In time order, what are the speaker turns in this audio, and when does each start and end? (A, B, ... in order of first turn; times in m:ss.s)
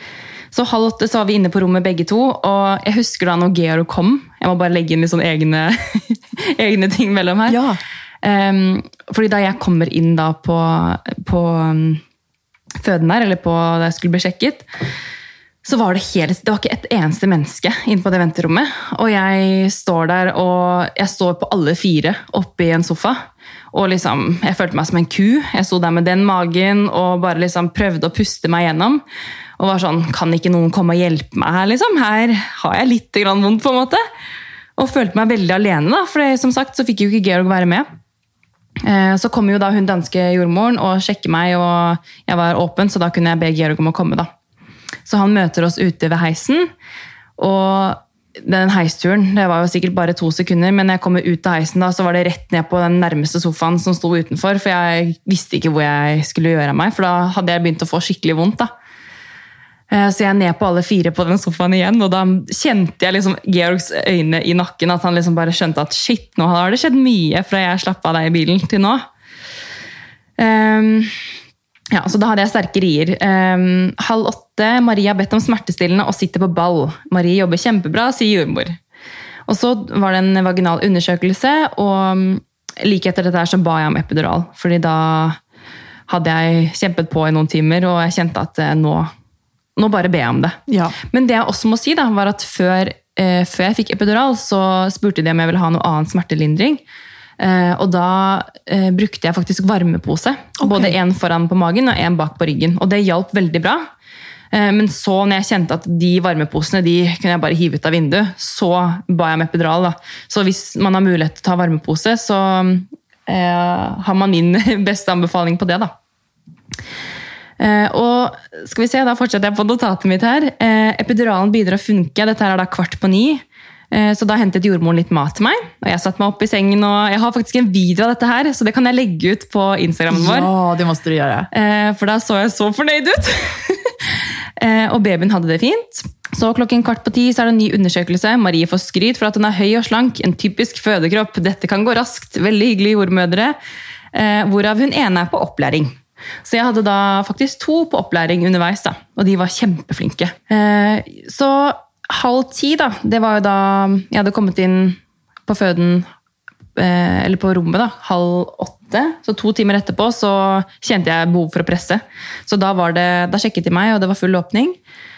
0:00.5-0:07.6 A
0:07.5-0:07.8 B
0:08.2-0:12.0 A
0:12.8-0:14.7 A
0:15.6-0:23.2 A
0:23.7-0:29.0 A
0:29.6-0:34.0 A
0:34.8-0:37.9 A
0:38.8-0:44.3 A
0:45.1-0:46.7 A
0:47.4-0:58.7 A
0:59.9-1:09.1 A
1:10.4-1:11.1 A
1:11.9-1:18.8 A
1:19.5-1:25.4 A
1:26.1-1:29.1 A
1:29.8-1:30.6 A
1:30.7-1:31.0 B
1:31.1-1:36.8 A
1:37.4-1:43.8 A
1:40.6-1:41.0 B
1:44.5-1:55.9 A
1:57.6-2:10.5 A
2:10.1-2:11.5 B
2:11.5-2:23.6 A
2:24.1-2:36.1 A
2:36.8-2:44.8 A